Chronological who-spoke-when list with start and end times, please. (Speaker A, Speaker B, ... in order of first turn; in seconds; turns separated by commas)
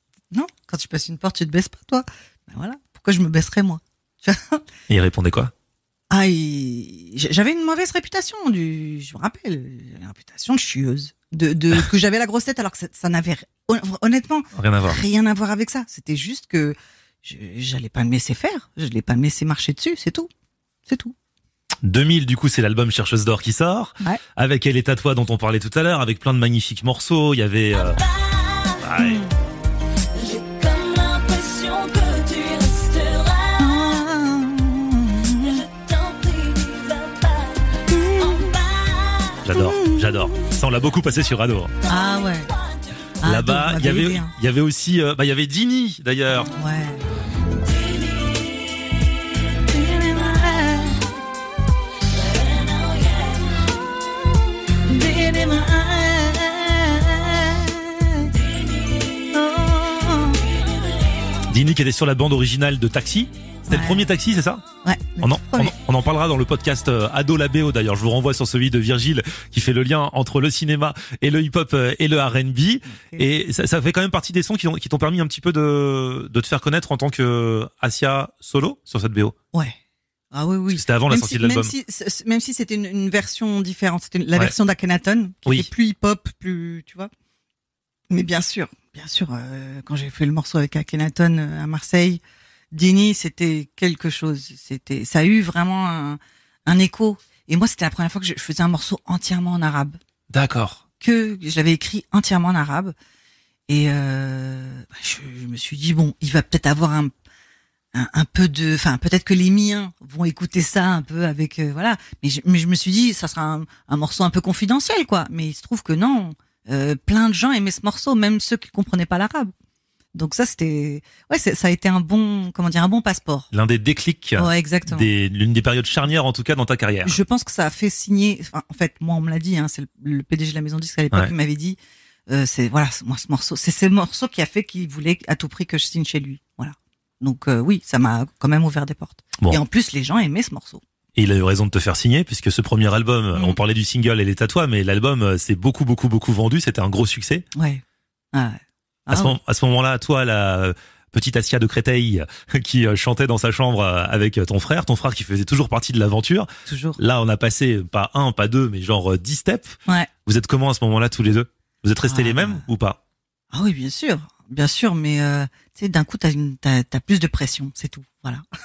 Speaker A: 0.3-4.6, Speaker B: 4.9-5.5, Speaker A: 6.1-20.3, Speaker B: 14.5-15.0, Speaker A: 20.9-21.1, Speaker B: 21.8-28.0, Speaker C: 27.7-28.9, Speaker B: 28.8-29.2, Speaker A: 28.9-29.3, Speaker C: 30.1-34.0, Speaker A: 33.6-35.6, Speaker C: 35.4-39.5, Speaker A: 37.9-38.5, Speaker B: 39.4-41.7, Speaker A: 39.5-40.5, Speaker A: 41.9-42.5, Speaker C: 41.9-43.1, Speaker A: 43.2-44.3, Speaker B: 43.2-46.5, Speaker A: 46.5-47.0, Speaker C: 47.6-51.1, Speaker A: 49.7-51.0, Speaker C: 52.0-53.8, Speaker A: 54.8-58.3, Speaker C: 58.3-59.3, Speaker A: 59.3-60.4, Speaker C: 60.4-61.4, Speaker B: 61.5-64.6, Speaker A: 63.7-64.1, Speaker A: 64.8-65.7, Speaker B: 65.2-79.3, Speaker A: 72.9-73.2, Speaker A: 80.3-87.1, Speaker B: 80.7-81.7, Speaker B: 85.4-85.7, Speaker A: 88.1-92.2, Speaker A: 92.7-100.0, Speaker B: 100.3-100.8, Speaker A: 101.0-102.9, Speaker A: 103.7-107.1, Speaker A: 107.9-119.5, Speaker A: 120.1-123.5, Speaker B: 123.5-127.2, Speaker A: 124.4-125.1, Speaker A: 127.0-131.8, Speaker A: 132.3-140.8, Speaker B: 141.2-147.4, Speaker A: 143.3-143.6, Speaker A: 147.5-147.8, Speaker A: 148.3-149.4, Speaker B: 149.1-159.7, Speaker A: 156.7-157.0, Speaker B: 160.2-163.0, Speaker A: 162.1-162.6, Speaker A: 163.5-168.4